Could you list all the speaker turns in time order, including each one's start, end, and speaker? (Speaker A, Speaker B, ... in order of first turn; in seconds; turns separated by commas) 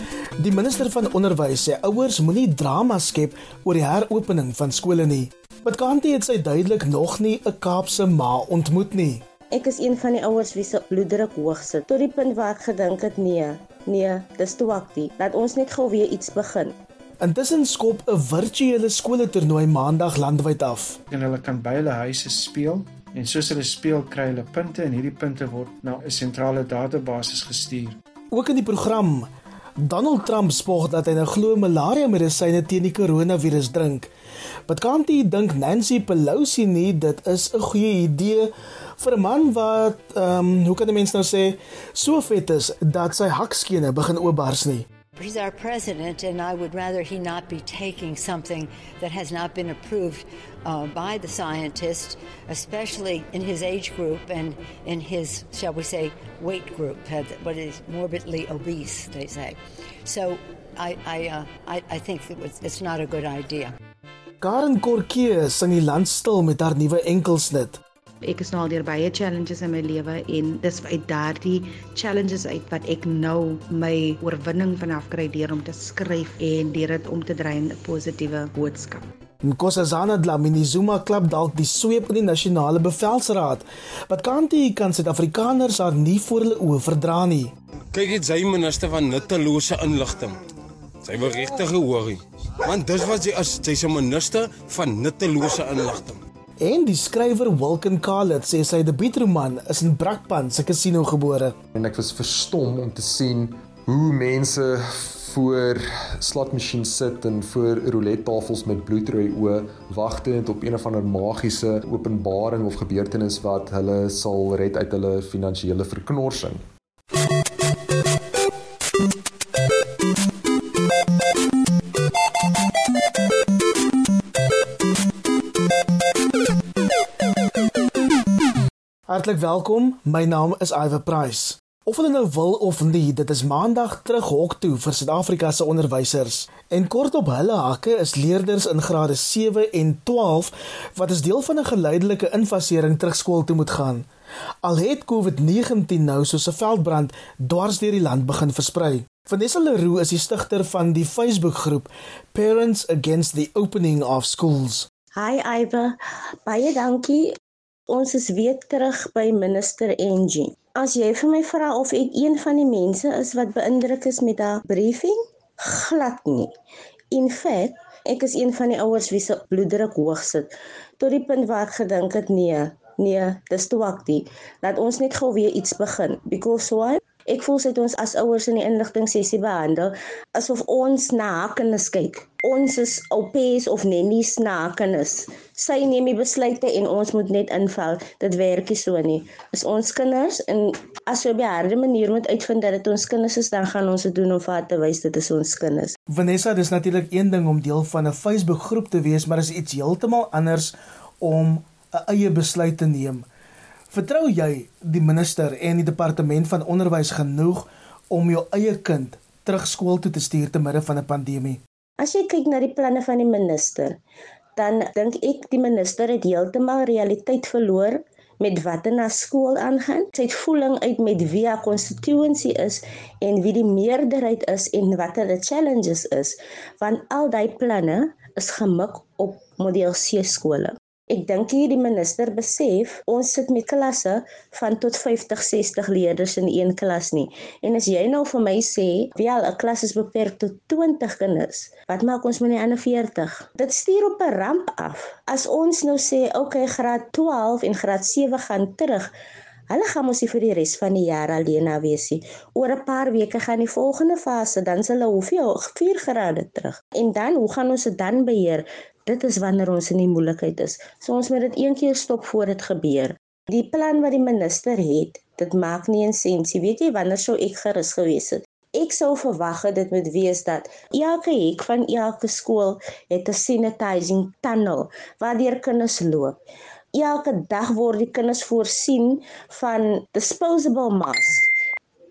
Speaker A: 0.4-9.2, Speaker B: 9.5-16.8, Speaker A: 17.2-21.0, Speaker C: 21.1-28.0, Speaker A: 28.3-29.3, Speaker A: 29.9-34.1, Speaker A: 34.7-44.9, Speaker D: 45.2-63.8, Speaker A: 64.4-67.8, Speaker E: 68.2-79.0, Speaker A: 79.4-87.5, Speaker F: 87.9-90.4, Speaker F: 91.0-96.2, Speaker A: 96.6-101.6, Speaker G: 101.7-116.6, Speaker A: 129.1-144.1, Speaker A: 144.6-154.9, Speaker B: 155.2-157.3, Speaker B: 157.9-166.5, Speaker B: 167.1-195.9, Speaker A: 196.1-203.3, Speaker A: 203.9-211.6, Speaker B: 212.0-214.0, Speaker B: 214.6-249.1, Speaker B: 249.7-276.4, Speaker B: 276.9-281.5